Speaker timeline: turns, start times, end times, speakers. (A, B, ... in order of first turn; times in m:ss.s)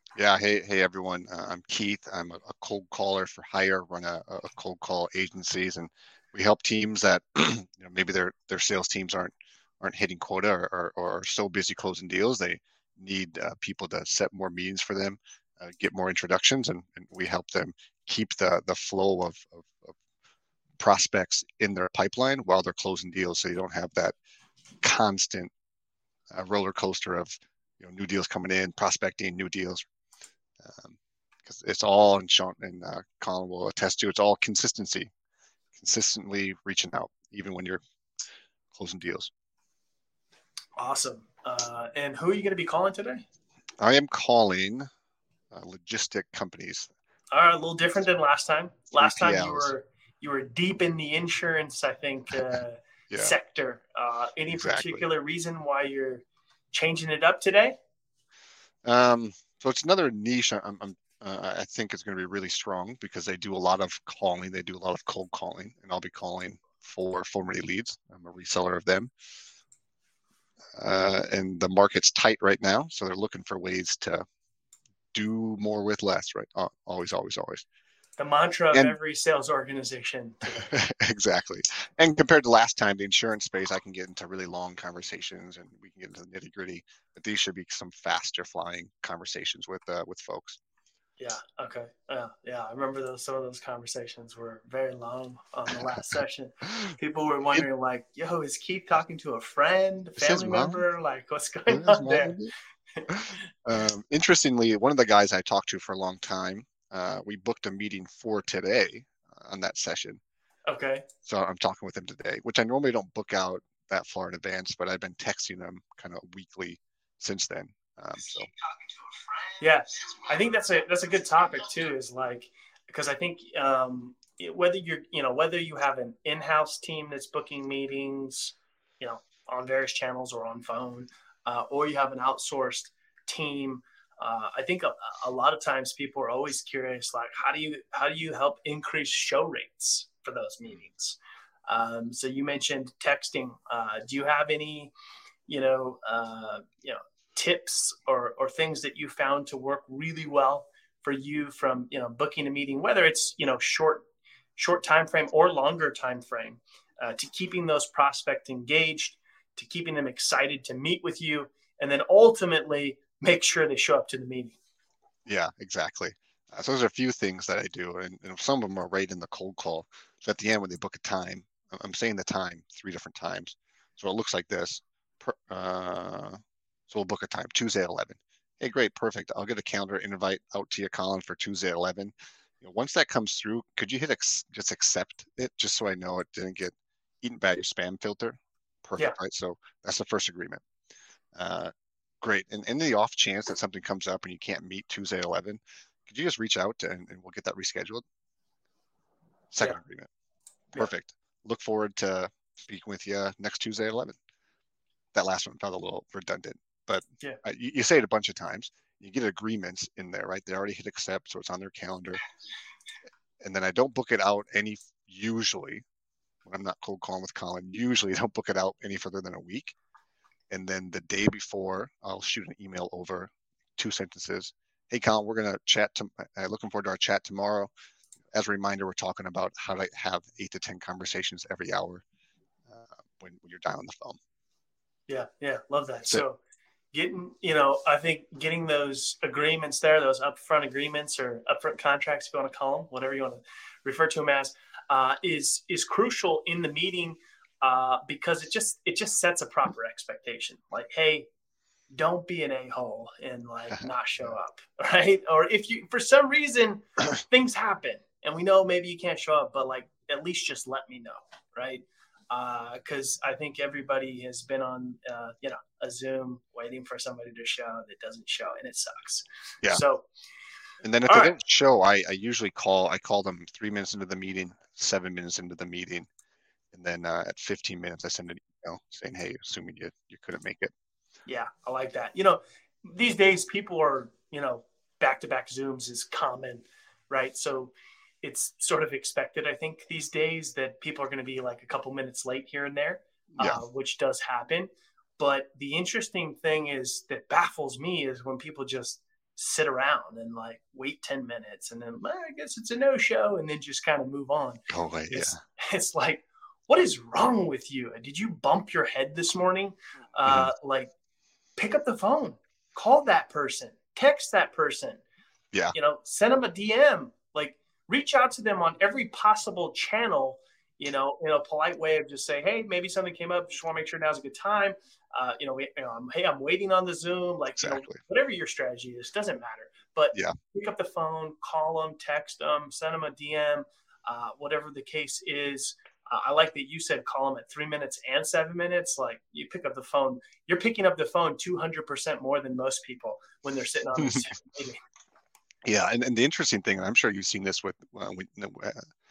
0:00.2-0:19.9 A
0:20.8-0:24.2 A
0:24.8-0:25.5 A
0:26.3-0:29.8 A
0:30.6-0:35.1 A
0:35.7-0:37.8 A
0:38.7-0:39.3 A
0:40.8-0:43.2 B
0:43.8-0:44.9 A
0:45.5-0:46.9 A
0:47.3-0:57.8 B
0:49.0-0:49.7 A
0:53.1-0:53.4 A
0:54.5-0:55.0 A
0:58.8-1:09.1 A
1:10.8-1:14.2 A
1:15.1-1:17.6 A
1:18.2-1:20.7 B
1:20.6-1:30.6 A
1:31.2-1:42.4 B
1:40.2-1:40.8 A
1:41.7-1:42.5 A
1:43.0-1:43.4 B
1:43.1-1:50.2 A
1:50.7-1:51.1 B
1:51.2-1:58.5 A
1:59.6-2:24.9 B
2:25.5-2:44.6 B
2:45.3-2:56.4 A
2:56.9-3:10.6 A
3:11.4-3:18.0 A
3:19.5-3:20.1 A
3:20.8-3:24.2 A
3:25.1-3:32.2 A
3:33.4-3:35.8 A
3:36.4-3:39.8 A
3:40.5-3:47.7 A
3:48.3-3:52.0 A
3:52.7-3:54.2 A
3:55.1-3:56.4 B
3:56.9-4:11.3 B
4:11.9-4:30.1 B
4:30.8-4:36.1 A
4:31.1-4:31.4 B
4:36.7-4:40.7 A
4:41.3-5:10.9 B
4:53.4-4:53.6 A
5:04.7-5:05.4 A
5:10.2-5:10.5 A
5:11.6-5:15.0 B
5:15.7-5:44.8 B
5:27.6-5:28.0 A
5:45.7-5:48.9 A